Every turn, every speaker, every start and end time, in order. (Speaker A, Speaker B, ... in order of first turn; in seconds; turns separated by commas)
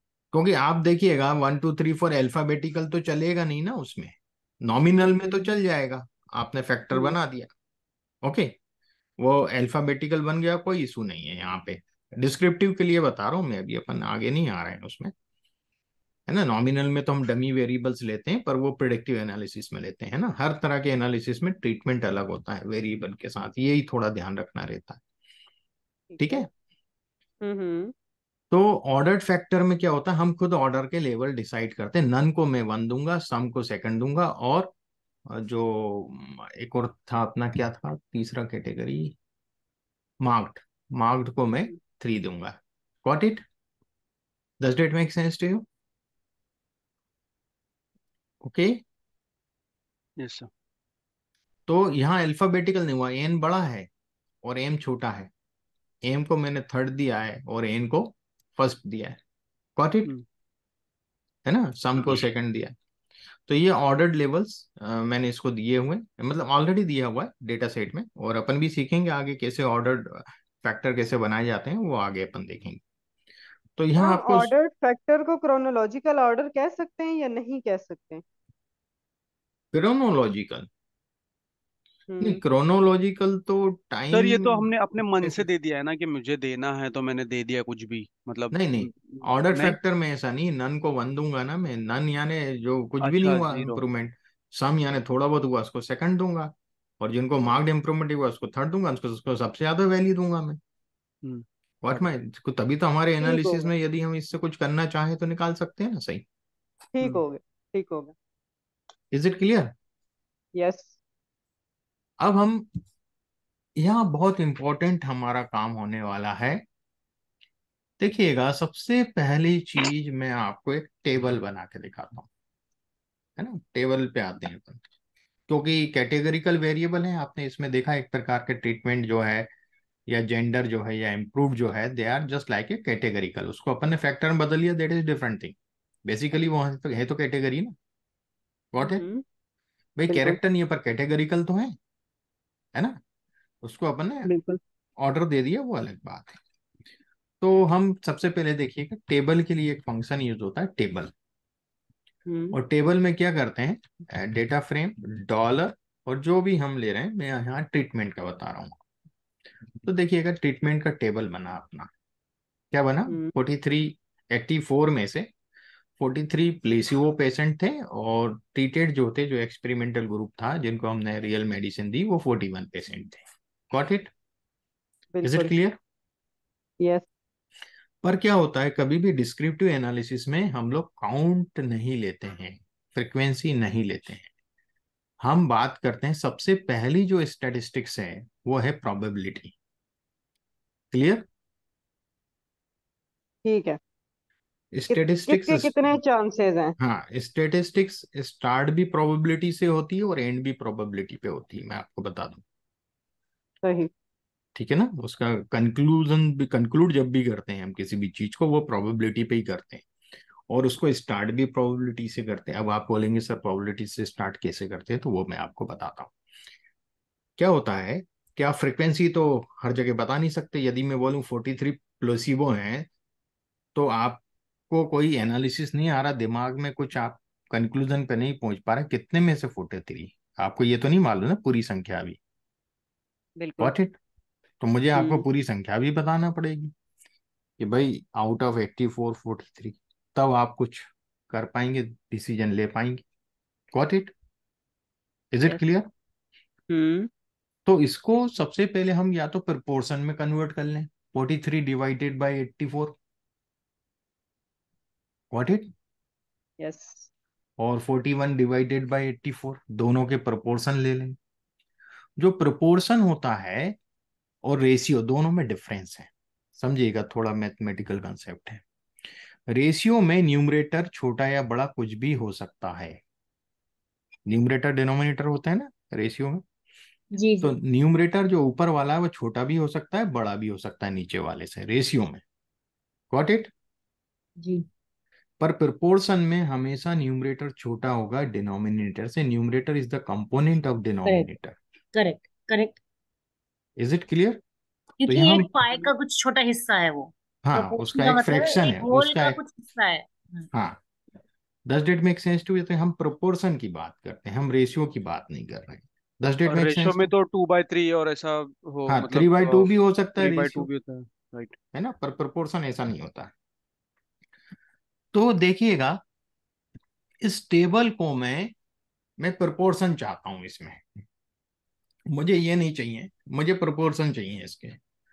Speaker A: 0.3-7.5, Speaker A: 8.2-8.5, Speaker A: 9.2-15.1, Speaker A: 16.3-25.0, Speaker B: 26.1-26.5, Speaker A: 26.2-26.5, Speaker B: 27.4-27.9, Speaker A: 28.5-34.7, Speaker A: 35.3-39.1, Speaker A: 40.2-43.4, Speaker A: 44.6-45.6, Speaker A: 48.4-48.8, Speaker C: 50.2-50.5, Speaker A: 51.7-53.9, Speaker A: 54.4-55.3, Speaker A: 56.0-59.2, Speaker A: 59.8-60.1, Speaker A: 61.5-62.7, Speaker A: 63.5-72.8, Speaker A: 73.8-74.5, Speaker B: 74.0-78.2, Speaker A: 79.7-80.7, Speaker B: 82.1-82.4, Speaker A: 82.2-84.7, Speaker C: 84.1-89.8, Speaker A: 85.2-85.5, Speaker A: 88.5-100.6, Speaker C: 93.0-93.8, Speaker C: 101.2-102.1, Speaker A: 101.8-106.2, Speaker B: 103.2-103.7, Speaker B: 106.9-108.1, Speaker A: 109.1-109.7, Speaker B: 110.5-111.0, Speaker A: 112.2-112.6, Speaker A: 113.8-116.6, Speaker A: 118.0-122.3, Speaker A: 123.4-124.8, Speaker A: 125.5-129.5, Speaker A: 130.1-137.7, Speaker A: 138.7-139.0, Speaker B: 138.8-139.2, Speaker A: 140.0-141.8, Speaker B: 140.1-140.4, Speaker A: 143.6-144.3, Speaker B: 144.2-144.6, Speaker A: 145.0-146.3, Speaker A: 147.4-151.1, Speaker B: 152.3-152.5, Speaker A: 152.5-158.8, Speaker A: 159.8-161.9, Speaker A: 162.7-165.3, Speaker A: 166.0-174.1, Speaker B: 175.1-175.5, Speaker A: 175.2-175.8, Speaker B: 176.8-177.0, Speaker A: 178.0-184.3, Speaker A: 185.2-189.5, Speaker A: 190.9-191.2, Speaker B: 193.4-193.8, Speaker A: 194.7-195.9, Speaker B: 194.9-196.7, Speaker A: 196.8-202.4, Speaker B: 203.6-203.9, Speaker A: 204.5-209.8, Speaker A: 210.5-216.1, Speaker A: 217.4-222.9, Speaker A: 223.7-232.2, Speaker B: 233.4-233.7, Speaker A: 233.6-233.9, Speaker A: 234.6-236.7, Speaker B: 234.9-235.2, Speaker A: 237.6-243.0, Speaker A: 243.7-244.1, Speaker A: 245.3-245.9, Speaker B: 246.7-247.1, Speaker A: 247.7-252.9, Speaker A: 255.3-255.7, Speaker B: 256.6-257.1, Speaker A: 257.6-261.2, Speaker A: 262.2-263.8, Speaker A: 264.4-268.6, Speaker A: 269.5-273.0, Speaker A: 274.2-276.4, Speaker D: 277.1-277.5, Speaker A: 277.4-282.2, Speaker A: 283.1-283.5, Speaker D: 284.4-284.6, Speaker A: 285.4-291.5, Speaker D: 291.0-291.3, Speaker D: 291.9-292.8, Speaker A: 293.8-294.4, Speaker D: 295.0-300.5, Speaker A: 295.1-295.5, Speaker A: 297.4-299.4, Speaker A: 300.5-300.8, Speaker A: 301.7-307.1, Speaker C: 306.5-311.6, Speaker A: 308.9-310.7, Speaker A: 311.7-313.3, Speaker A: 315.1-316.0, Speaker A: 317.2-318.5, Speaker A: 319.2-320.8, Speaker A: 322.1-324.8